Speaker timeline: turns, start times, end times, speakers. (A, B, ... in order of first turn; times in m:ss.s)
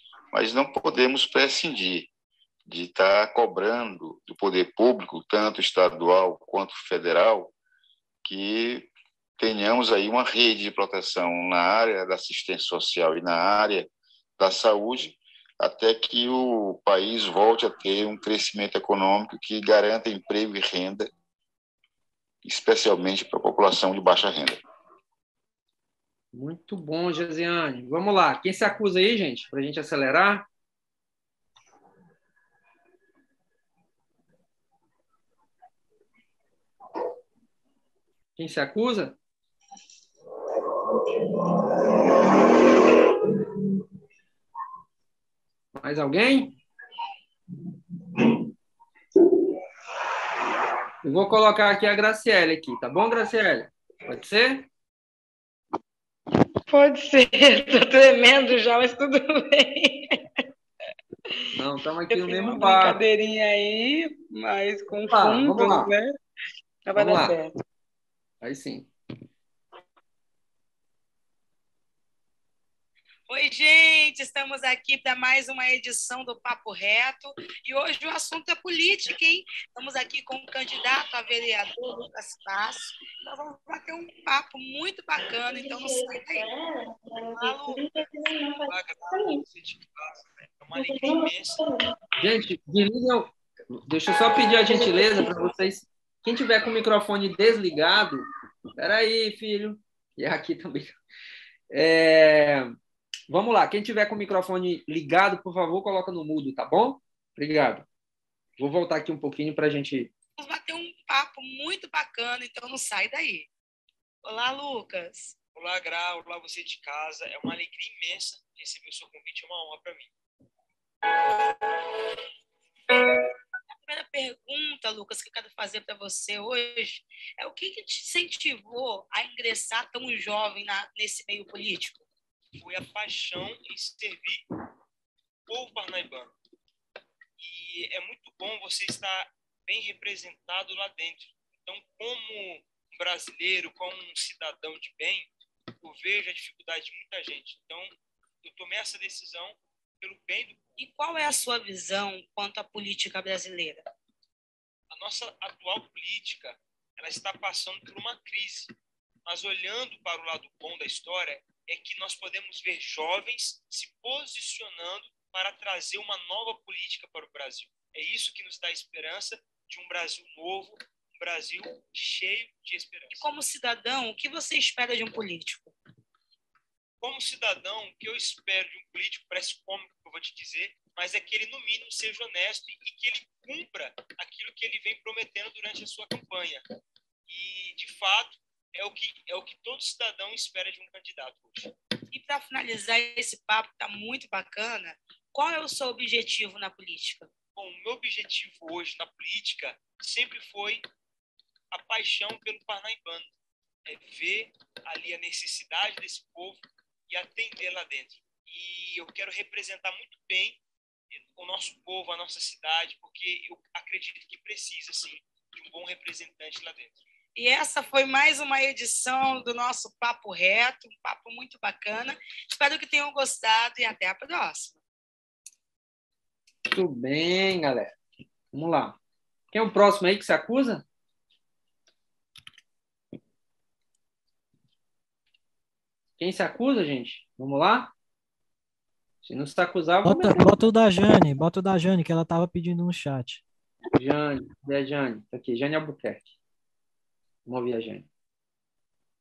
0:00.3-0:02.1 A
0:02.7-0:07.5 A
0:08.2-0:21.1 A
0:22.4-0:24.6 A
0:26.3-0:30.4 B
0:38.4-0:39.2 B
0:45.7-0:46.5 B
0:51.0-0:54.6 B
0:56.7-1:00.2 C
1:01.5-1:03.0 B
1:02.1-1:06.1 C
1:05.1-1:05.9 B
1:06.9-1:07.5 C
1:07.0-1:07.4 B
1:08.4-1:08.9 B
1:13.3-1:26.5 D
1:27.3-1:28.0 D
1:28.6-1:31.6 E
1:32.2-1:33.3 B
1:33.9-1:38.2 B
1:38.8-1:41.0 B
1:41.7-1:42.7 B
1:43.3-1:47.8 B
1:48.6-1:50.1 B
1:50.4-1:53.5 D
1:54.2-1:55.4 D
1:55.5-2:00.1 E
2:03.8-2:12.0 D
2:12.6-2:14.4 E
2:15.5-2:16.3 E
2:17.4-2:30.7 E
2:30.8-2:33.8 D
2:34.9-2:38.7 E
2:39.3-2:53.3 E
2:53.1-2:55.7 D
2:57.0-3:06.6 E
3:07.3-3:11.7 E
3:12.1-3:17.3 D
3:17.5-3:20.9 E
3:21.7-3:23.3 E
3:23.9-3:30.6 E
3:31.1-3:37.0 E
3:37.4-3:44.8 D
3:46.7-3:48.0 B
3:48.5-3:49.0 B
3:49.5-3:50.8 B
3:56.2-3:57.9 B
3:59.2-4:00.5 B
4:00.0-4:03.4 F
4:04.0-4:06.3 B
4:07.4-4:08.1 B